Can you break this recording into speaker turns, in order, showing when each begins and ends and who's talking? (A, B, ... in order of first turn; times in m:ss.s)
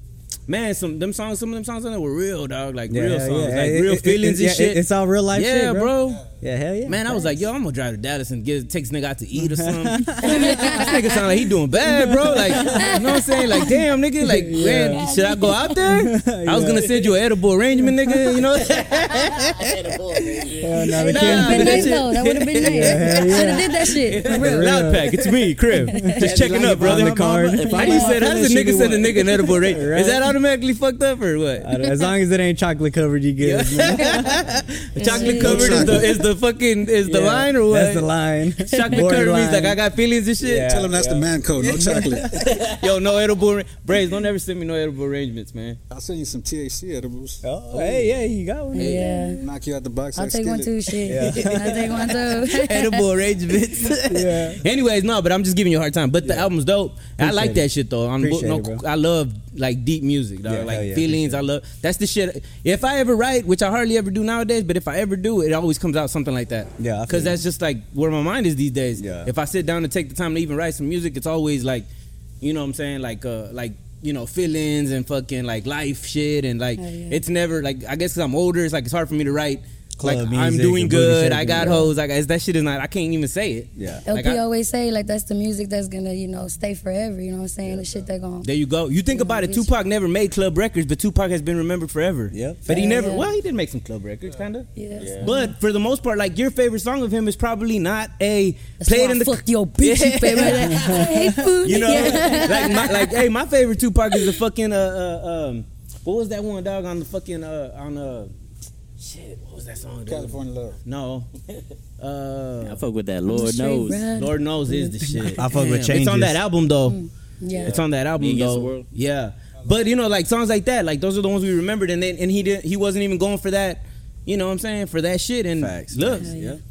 0:00.5-0:04.8 A
0:02.9-0:07.4 B
0:05.3-0:06.2 A
0:06.9-0:19.7 A
0:09.4-0:10.9 B
0:10.2-0:11.0 C
0:11.8-0:13.1 B
0:12.6-0:13.8 C
0:14.2-0:15.1 B
0:14.8-0:15.8 C
0:15.8-0:17.2 B
0:18.1-0:18.4 B
0:19.2-0:21.4 D
0:20.6-0:22.0 B
0:21.0-0:24.8 C
0:21.1-0:23.5 A
0:22.6-0:25.2 B
0:24.1-0:31.7 A
0:25.8-0:28.3 B
0:25.9-0:26.2 C
0:26.4-0:29.8 D
0:29.4-0:30.3 B
0:31.6-0:36.2 B
0:33.4-0:38.1 A
0:35.0-0:35.8 C
0:35.1-0:36.2 E
0:37.0-0:39.8 B
0:38.6-0:40.7 A
0:40.4-0:42.6 B
0:40.6-0:42.4 E
0:42.6-0:45.8 A
0:45.9-0:47.4 E
0:47.4-0:49.4 B
0:48.7-0:49.4 C
0:48.8-0:49.1 A
0:49.4-0:50.9 E
0:50.2-0:53.0 C
0:51.1-0:52.0 B
0:52.5-1:11.9 A
0:54.1-0:54.6 B
0:56.2-0:56.5 B
0:57.2-0:57.7 B
0:58.2-0:58.8 B
1:00.5-1:01.4 B
1:06.8-1:07.4 B
1:09.0-1:09.3 B
1:12.4-1:24.4 A
1:16.8-1:17.2 C
1:20.0-1:21.9 B
1:23.8-1:24.0 B
1:24.1-1:28.5 C
1:28.4-1:34.7 A
1:29.1-1:29.7 C
1:32.3-1:32.9 B
1:32.7-1:33.3 C
1:34.8-1:35.5 C
1:35.0-1:35.3 D
1:35.2-1:40.9 A
1:38.8-1:43.1 C
1:40.6-1:41.4 B
1:41.6-1:48.3 A
1:49.0-1:51.3 A
1:50.1-1:50.8 E
1:52.0-1:52.8 A
1:52.6-1:54.1 D
1:53.3-1:55.5 C
1:54.2-1:57.0 A
1:55.4-1:56.4 B
1:56.9-1:57.7 C
1:57.6-1:58.9 D
1:57.7-2:06.3 A
2:05.6-2:06.6 B
2:06.2-2:06.6 C